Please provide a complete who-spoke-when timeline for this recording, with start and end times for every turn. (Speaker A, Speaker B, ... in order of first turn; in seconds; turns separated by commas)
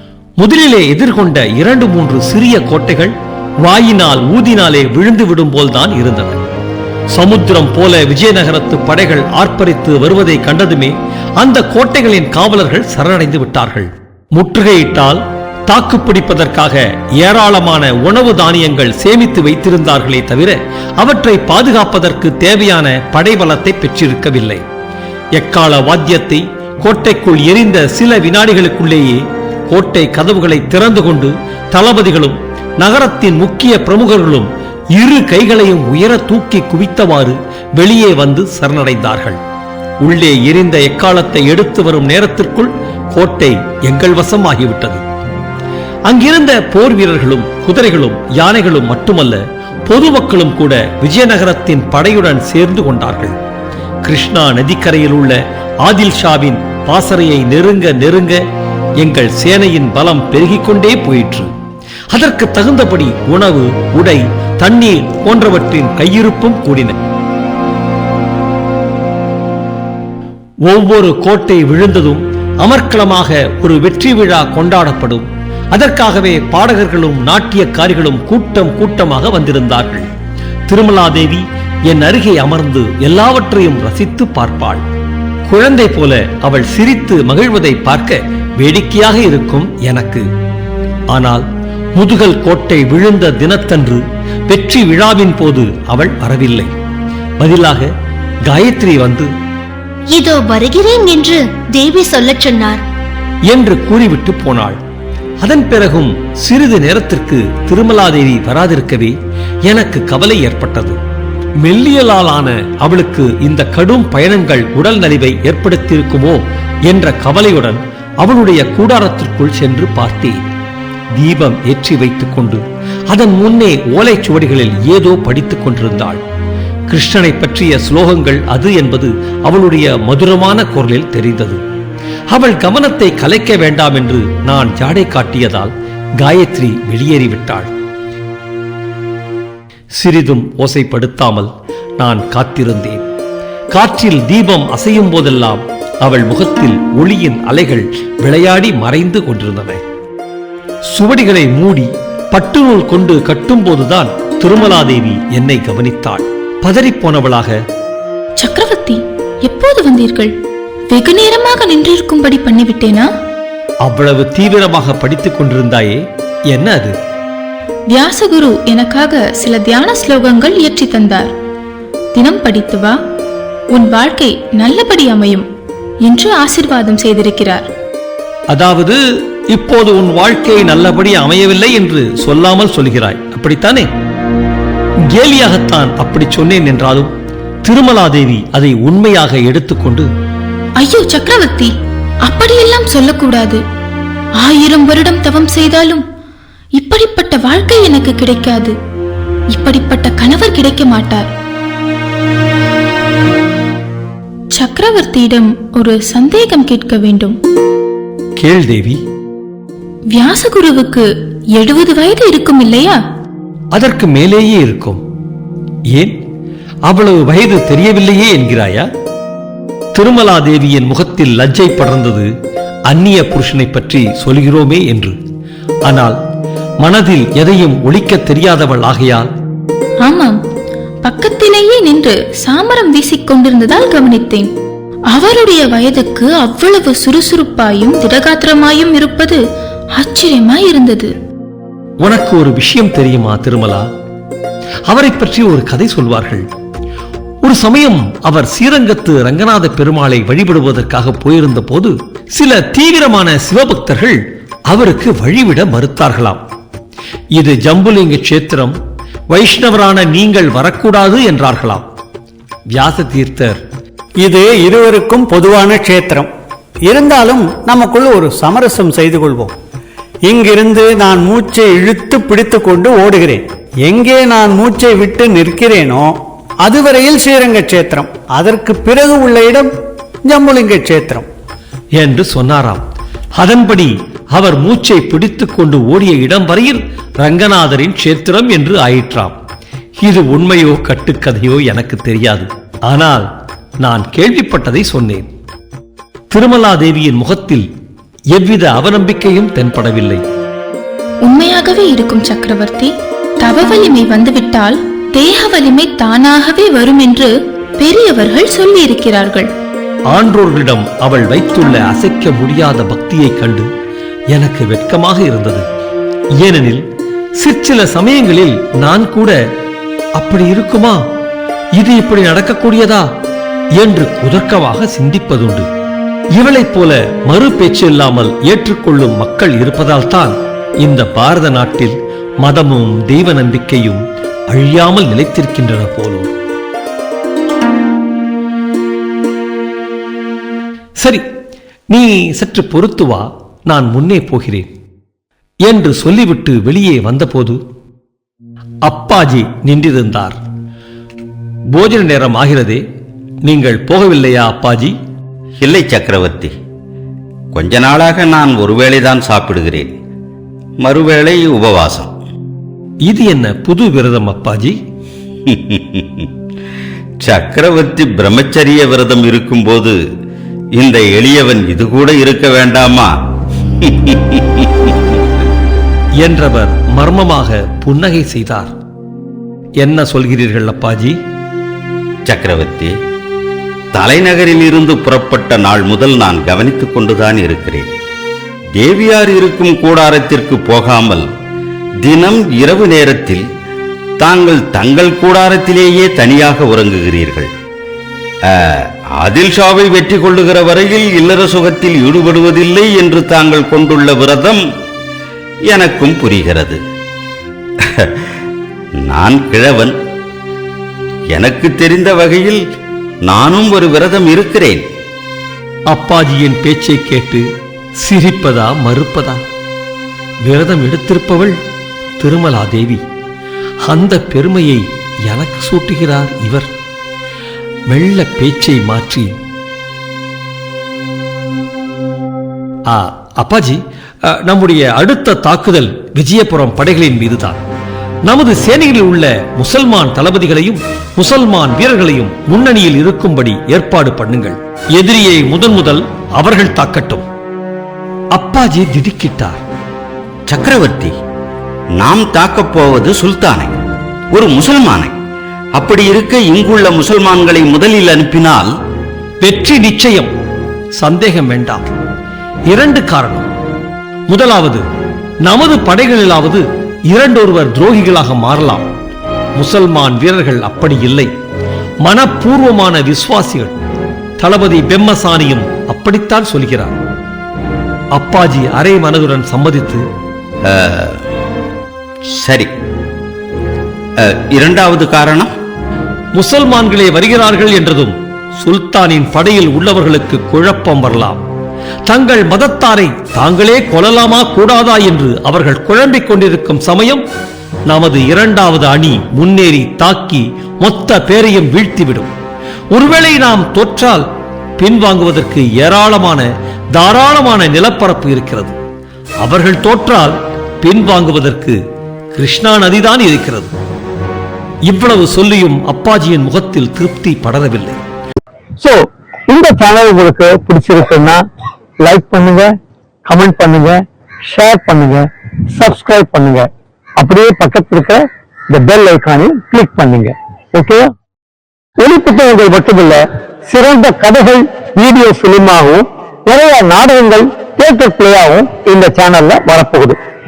Speaker A: 0.4-6.4, Speaker A: 7.1-24.6, Speaker A: 25.4-39.4, Speaker A: 40.0-45.0, Speaker A: 46.1-53.3, Speaker A: 54.0-58.4, Speaker A: 59.0-61.5, Speaker A: 62.1-67.0, Speaker A: 70.7-80.1, Speaker A: 80.7-84.8, Speaker A: 85.5-90.2, Speaker A: 91.1-91.5, Speaker A: 92.0-96.7, Speaker A: 97.4-97.9, Speaker A: 98.5-99.3, Speaker B: 100.1-102.8, Speaker A: 103.5-104.8, Speaker A: 105.4-109.2, Speaker A: 109.7-111.0, Speaker A: 111.6-120.4, Speaker A: 121.2-126.2, Speaker A: 126.9-131.6, Speaker A: 132.3-137.7, Speaker A: 140.0-143.0, Speaker A: 143.7-149.8, Speaker A: 150.9-157.6, Speaker C: 158.4-160.3, Speaker C: 160.9-163.1, Speaker A: 163.8-166.9, Speaker C: 167.9-171.3, Speaker C: 172.2-172.9, Speaker C: 173.7-175.5, Speaker C: 176.1-177.7, Speaker A: 178.5-179.0, Speaker A: 179.5-183.9, Speaker A: 185.1-187.1, Speaker A: 187.7-190.1, Speaker C: 190.8-191.7, Speaker C: 192.3-193.6, Speaker C: 194.4-196.0, Speaker C: 196.8-198.8, Speaker C: 199.5-201.3, Speaker C: 204.6-207.4, Speaker A: 208.4-209.0, Speaker C: 210.1-213.0, Speaker A: 213.7-215.0, Speaker A: 216.9-218.9, Speaker A: 219.9-222.3, Speaker A: 222.9-225.2, Speaker A: 225.9-226.2, Speaker A: 226.8-229.3, Speaker C: 230.0-230.4, Speaker C: 231.0-234.5, Speaker C: 235.1-239.4, Speaker C: 240.0-241.1, Speaker A: 242.0-243.9, Speaker A: 244.9-246.4, Speaker A: 247.4-256.4, Speaker A: 257.4-258.8, Speaker A: 259.3-261.9, Speaker A: 262.7-263.6, Speaker D: 264.2-266.3, Speaker D: 266.9-269.6, Speaker D: 270.3-279.7, Speaker D: 280.3-281.3, Speaker A: 282.0-282.8, Speaker A: 283.4-289.4, Speaker A: 290.0-293.3, Speaker A: 293.8-295.3, Speaker A: 296.3-297.7, Speaker A: 298.3-300.2, Speaker C: 301.2-302.9, Speaker C: 303.4-309.5, Speaker A: 310.1-313.7, Speaker A: 314.3-315.6, Speaker A: 316.4-316.8, Speaker A: 317.4-319.4, Speaker A: 320.2-321.0, Speaker A: 321.8-323.1, Speaker A: 323.8-325.7, Speaker A: 326.4-336.3, Speaker A: 341.0-341.2, Speaker A: 341.9-344.7, Speaker A: 345.6-347.6, Speaker A: 348.9-350.4, Speaker A: 351.7-352.8, Speaker A: 353.4-355.0, Speaker E: 355.6-356.5, Speaker E: 357.5-359.9, Speaker E: 360.8-362.1, Speaker A: 363.1-364.8, Speaker E: 365.5-366.3, Speaker E: 367.2-370.0, Speaker E: 370.8-373.1, Speaker E: 373.8-374.7, Speaker A: 376.2-378.7, Speaker A: 379.8-381.2, Speaker E: 382.3-382.9, Speaker E: 383.9-387.9, Speaker E: 388.8-391.2, Speaker E: 392.0-393.4, Speaker E: 394.2-397.5, Speaker E: 398.5-404.6, Speaker E: 405.7-406.8, Speaker E: 409.1-409.9, Speaker E: 411.3-412.6, Speaker E: 413.3-414.9, Speaker A: 415.9-417.5, Speaker A: 418.0-419.4, Speaker A: 420.4-421.6, Speaker A: 422.2-423.0, Speaker A: 423.8-426.7, Speaker A: 427.9-429.3, Speaker A: 432.9-437.6, Speaker A: 438.3-447.2, Speaker A: 448.3-449.6, Speaker E: 450.5-451.1, Speaker E: 452.0-453.8, Speaker E: 454.3-455.2, Speaker E: 455.8-458.7, Speaker A: 459.4-460.3, Speaker A: 461.0-461.8, Speaker A: 462.7-463.5, Speaker A: 464.3-464.8, Speaker A: 465.4-468.9, Speaker A: 469.6-471.3, Speaker A: 472.0-473.7, Speaker A: 474.4-477.0, Speaker A: 478.1-480.1, Speaker E: 480.7-481.2, Speaker E: 482.4-482.7, Speaker E: 484.2-485.5, Speaker A: 486.3-491.4, Speaker A: 492.1-497.2, Speaker A: 497.9-502.3, Speaker A: 502.9-504.3, Speaker A: 504.8-508.8, Speaker A: 509.4-511.8, Speaker A: 512.4-513.7, Speaker A: 514.9-518.0, Speaker F: 518.8-521.4, Speaker F: 522.0-522.7, Speaker F: 523.3-525.2, Speaker F: 525.8-526.7, Speaker F: 527.2-531.0, Speaker F: 532.0-540.2